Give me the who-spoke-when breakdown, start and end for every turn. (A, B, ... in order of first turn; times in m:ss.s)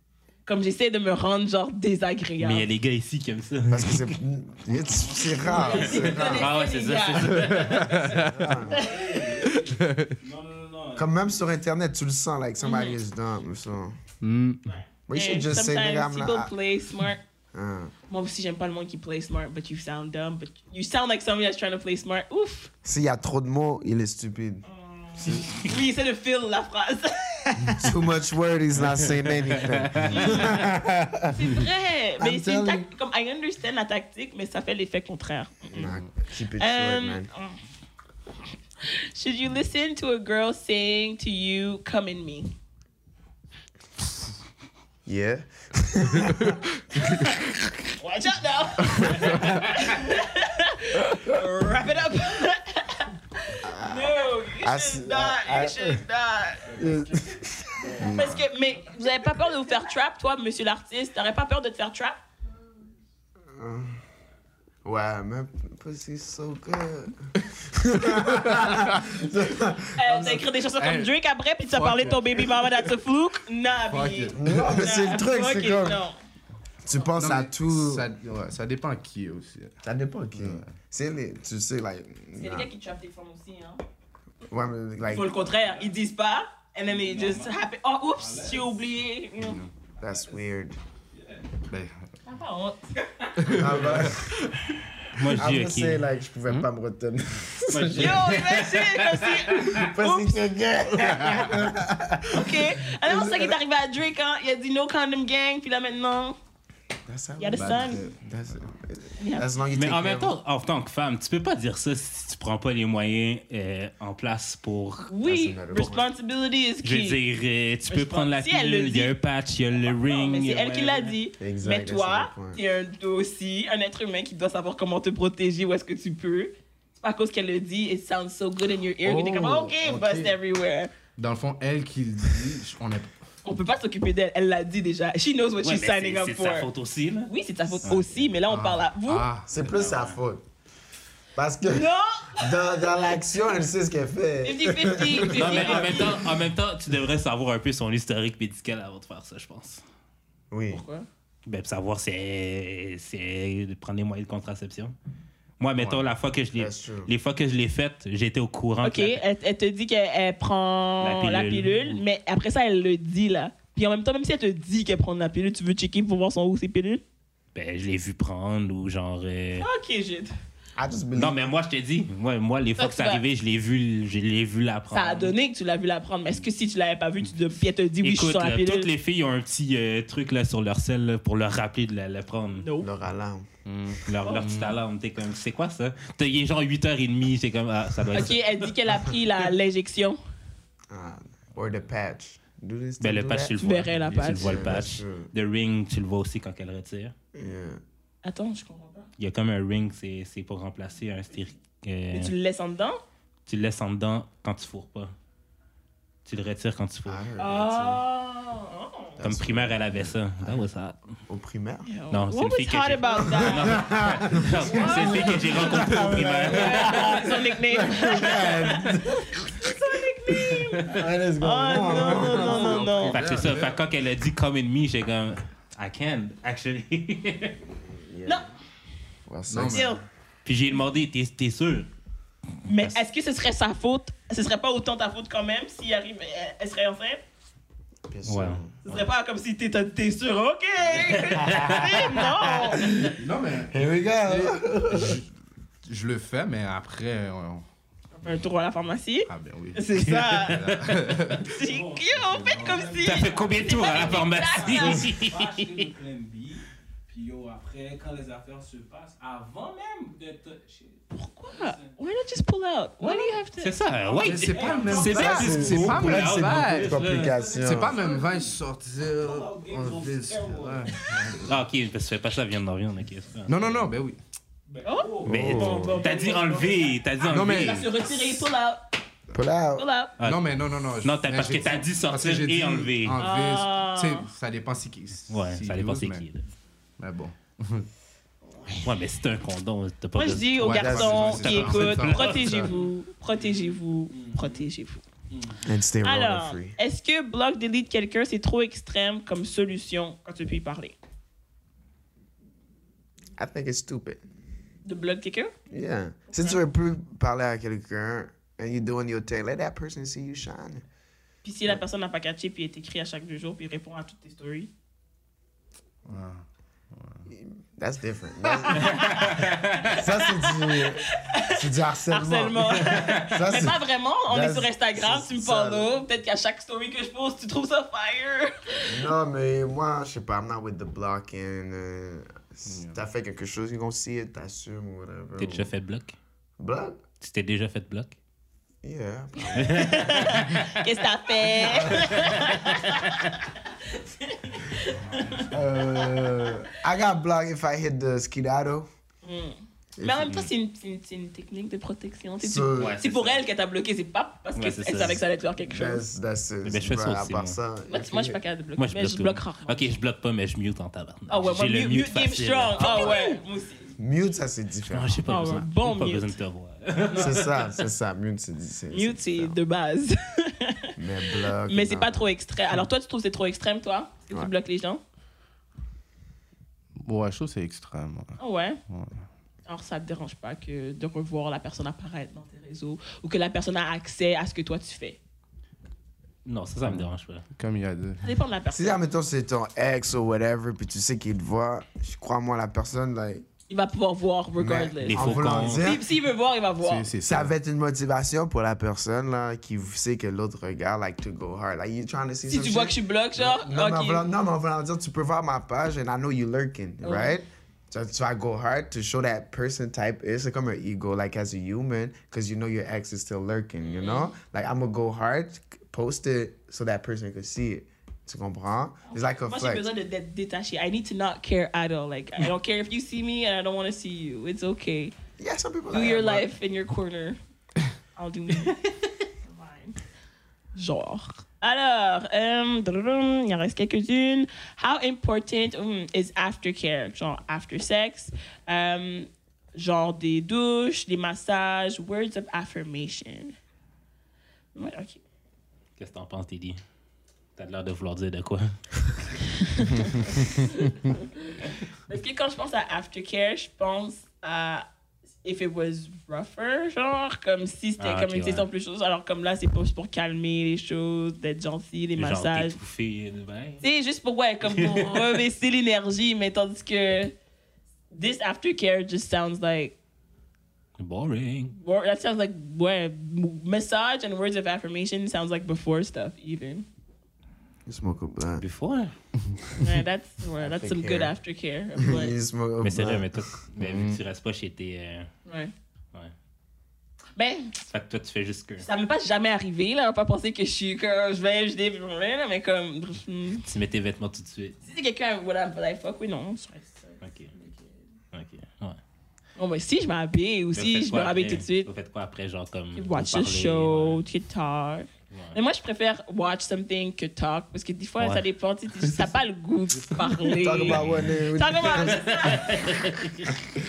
0:00.5-0:02.7 A
0:02.4-0:04.2 B
0:03.7-0:06.5 C
0:05.4-0:08.1 A
0:05.6-0:06.0 D
0:05.8-0:08.2 B
0:07.3-0:08.7 E
0:08.3-0:08.9 C
0:08.7-0:11.4 D
0:08.7-0:09.1 A
0:09.5-0:10.2 E
0:11.0-0:14.0 C
0:12.6-0:13.0 A
0:14.2-0:14.6 E
0:14.6-0:17.2 A
0:15.1-0:16.5 C
0:17.5-0:17.9 C
0:18.1-0:22.7 A
0:22.8-0:24.6 C
0:24.6-0:27.9 A
0:25.2-0:25.7 C
0:27.8-0:31.6 C
0:30.0-0:30.4 E
0:30.1-0:30.6 A
0:31.3-0:35.9 A
0:32.2-0:32.9 C
0:35.7-0:37.3 C
0:35.8-0:36.1 E
0:36.6-0:37.6 A
0:38.8-0:42.5 A
0:45.1-0:46.6 C
0:47.0-0:56.7 A
0:53.6-0:56.0 C
0:56.6-0:58.3 D
0:56.7-0:58.3 C
0:58.0-1:02.2 A
0:58.1-0:58.4 E
1:03.5-1:04.0 C
1:04.8-1:10.4 C
1:08.0-1:09.1 E
1:10.0-1:16.2 A
1:10.1-1:11.2 E
1:11.7-1:12.9 E
1:13.9-1:14.8 E
1:14.4-1:16.0 C
1:16.8-1:18.1 C
1:17.2-1:19.8 E
1:19.8-1:22.7 C
1:20.3-1:20.7 E
1:22.4-1:23.8 A
1:24.5-1:25.3 C
1:25.1-1:29.6 A
1:25.4-1:25.9 D
1:26.9-1:27.6 D
1:28.1-1:28.9 D
1:29.4-1:29.7 E
1:30.0-1:30.4 D
1:30.0-1:30.8 C
1:31.1-1:31.6 D
1:31.7-1:32.0 E
1:32.3-1:32.9 A
1:33.4-1:34.2 E
1:33.5-1:34.5 C
1:35.1-1:36.0 B
1:35.4-1:38.3 C
1:37.7-1:39.9 B
1:37.9-1:40.4 A
1:39.6-1:43.6 C
1:41.1-1:41.6 E
1:42.3-1:46.4 A
1:47.1-1:50.3 C
1:47.4-1:48.0 A
1:47.6-1:48.2 E
1:49.2-1:49.5 A
1:49.7-1:55.1 B
1:55.1-1:57.2 A
1:55.2-1:56.1 C
1:56.8-2:01.2 B
1:57.9-1:59.1 A
1:59.8-2:10.9 A
2:01.4-2:02.6 C
2:09.0-2:10.4 E
2:11.2-2:13.1 E
2:13.4-2:16.7 A
2:15.6-2:17.3 B
2:17.3-2:19.3 A
2:17.8-2:18.2 B
2:18.5-2:19.5 E
2:19.5-2:20.4 C
2:19.6-2:20.2 B
2:21.4-2:21.9 C
2:21.6-2:22.7 A
2:22.4-2:26.1 C
2:24.4-2:26.2 A
2:25.3-2:29.8 B
2:30.5-2:30.8 C
2:30.7-2:31.1 A
2:31.5-2:35.0 B
2:35.6-2:39.2 B
2:36.6-2:37.1 C
2:38.8-2:47.0 A
2:41.0-2:42.0 B
2:47.6-2:49.7 B
2:49.6-2:50.3 A
2:50.8-2:51.5 C
2:51.2-2:55.4 B
2:52.8-2:53.2 A
2:54.9-2:58.9 A
2:58.0-3:02.7 B
3:02.6-3:02.9 A
3:02.8-3:03.5 C
3:03.7-3:04.8 E
3:04.1-3:08.7 B
3:08.1-3:10.2 A
3:10.9-3:13.6 C
3:13.0-3:17.1 B
3:13.6-3:14.7 A
3:14.1-3:14.4 E
3:14.4-3:15.3 C
3:17.4-3:17.8 C
3:18.2-3:19.1 A
3:19.2-3:22.3 B
3:22.1-3:23.0 A
3:23.5-3:25.1 B
3:26.2-3:27.3 B
3:27.1-3:28.0 C
3:27.4-3:29.2 A
3:29.2-3:30.7 C
3:29.2-3:31.0 B
3:31.3-3:31.9 C
3:31.9-3:43.2 A
3:32.1-3:37.2 B
3:33.2-3:39.5 C
3:40.8-3:43.1 C
3:41.9-3:43.8 E
3:43.1-3:47.6 B
3:48.0-3:48.4 C
3:49.3-3:49.9 C
3:49.5-3:50.0 E
3:49.7-3:50.0 A
3:50.4-3:51.9 B
3:52.6-3:57.2 A
3:58.1-3:58.8 C
3:58.3-3:59.1 B
3:58.9-4:02.9 A
4:01.2-4:02.0 B
4:01.4-4:03.2 C
4:03.2-4:05.3 E
4:03.7-4:05.2 C
4:05.8-4:07.6 E
4:08.2-4:10.6 A
4:09.3-4:11.6 E
4:10.0-4:11.2 B
4:11.4-4:15.2 A
4:11.6-4:22.0 D
4:13.0-4:15.9 B
4:21.1-4:23.8 A
4:23.0-4:25.9 D
4:23.6-4:27.4 B
4:24.2-4:27.0 E
4:25.0-4:28.0 C
4:27.0-4:31.4 D
4:27.6-4:31.5 E
4:31.4-4:33.8 B
4:33.5-4:34.2 E
4:34.7-4:36.9 D
4:34.8-4:38.8 A
4:35.3-4:36.0 C
4:35.3-4:37.9 B
4:37.3-4:37.9 E
4:39.3-4:39.9 C
4:39.8-4:40.1 A
4:40.2-4:40.5 B
4:40.2-4:46.3 E
4:41.0-4:43.2 B
4:43.2-4:44.3 A
4:45.3-4:46.5 B
4:47.0-4:47.9 E
4:48.8-4:52.6 B
4:50.2-4:55.0 A
4:50.6-4:52.7 E
4:50.8-4:51.4 C
4:52.1-4:54.7 D
4:55.3-4:55.7 D
4:55.6-4:56.8 C
4:56.0-5:01.0 A
5:03.4-5:04.2 C
5:04.8-5:05.5 A
5:05.7-5:10.8 C
5:06.3-5:06.6 A
5:11.4-5:14.7 A
5:16.1-5:17.2 E
5:17.3-5:26.0 C
5:18.7-5:28.9 A
5:18.8-5:20.0 B
5:22.8-5:23.1 B
5:28.9-5:35.7 C
5:32.7-5:33.0 E
5:35.4-5:36.2 B
5:36.6-5:37.0 C
5:37.2-5:38.2 B
5:38.8-5:40.2 C
5:39.6-5:45.5 A
5:39.6-5:40.7 B
5:41.5-5:42.5 C
5:41.9-5:42.9 B
5:45.5-5:48.9 C
5:49.2-5:56.0 A
5:50.0-5:50.3 C
5:52.4-5:53.0 C
5:52.7-5:53.4 B
5:54.6-5:55.2 B
5:55.7-5:58.4 C
5:56.6-5:57.6 B
5:57.9-6:00.0 A
5:58.8-6:03.2 B
6:01.3-6:03.9 A
6:04.0-6:05.3 C
6:04.9-6:07.6 B
6:05.3-6:06.3 A
6:07.2-6:09.6 C
6:08.9-6:11.0 A
6:11.0-6:12.4 C
6:11.7-6:15.0 A
6:17.0-6:19.2 E
6:18.4-6:18.8 A
6:19.7-6:25.2 A
6:26.4-6:27.4 B
6:26.8-6:28.3 E
6:28.2-6:29.0 A
6:28.7-6:33.5 C
6:33.7-6:37.1 A
6:34.6-6:36.1 C
6:35.0-6:35.9 B
6:36.8-6:37.5 E
6:37.2-6:59.9 C
6:42.5-6:44.2 A
6:47.0-6:47.4 A
6:53.8-6:54.3 A
6:59.1-7:05.2 A
7:05.4-7:06.5 C
7:05.9-7:07.4 A
7:08.2-7:08.8 A
7:09.4-7:10.0 A
7:10.8-7:23.6 A
7:24.8-7:25.2 A
7:26.0-7:26.8 B
7:27.6-7:29.0 B
7:29.7-7:31.2 A
7:32.1-7:34.8 A
7:35.4-7:42.8 A
7:38.0-7:38.7 B
7:42.2-7:43.8 B
7:43.8-7:47.3 A
7:44.6-7:45.4 B
7:48.1-7:50.0 A
7:51.0-7:51.8 B
7:51.8-7:56.9 A
7:57.9-7:58.6 C
7:58.6-7:59.1 B
7:59.8-8:02.4 A
8:00.6-8:01.3 C
8:02.0-8:03.4 C
8:02.8-8:05.3 B
8:03.8-8:04.2 E
8:05.5-8:05.7 A
8:07.4-8:07.8 A
8:07.9-8:08.9 B
8:08.8-8:13.7 A
8:13.6-8:14.8 B
8:14.8-8:18.0 A
8:17.2-8:17.5 B
8:18.3-8:19.0 B
8:19.6-8:21.9 A
8:20.8-8:24.2 B
8:23.0-8:33.0 A
8:25.3-8:25.6 B
8:28.2-8:28.5 B
8:29.0-8:29.3 B
8:30.0-8:31.3 B
8:30.6-8:32.4 C
8:31.9-8:33.6 B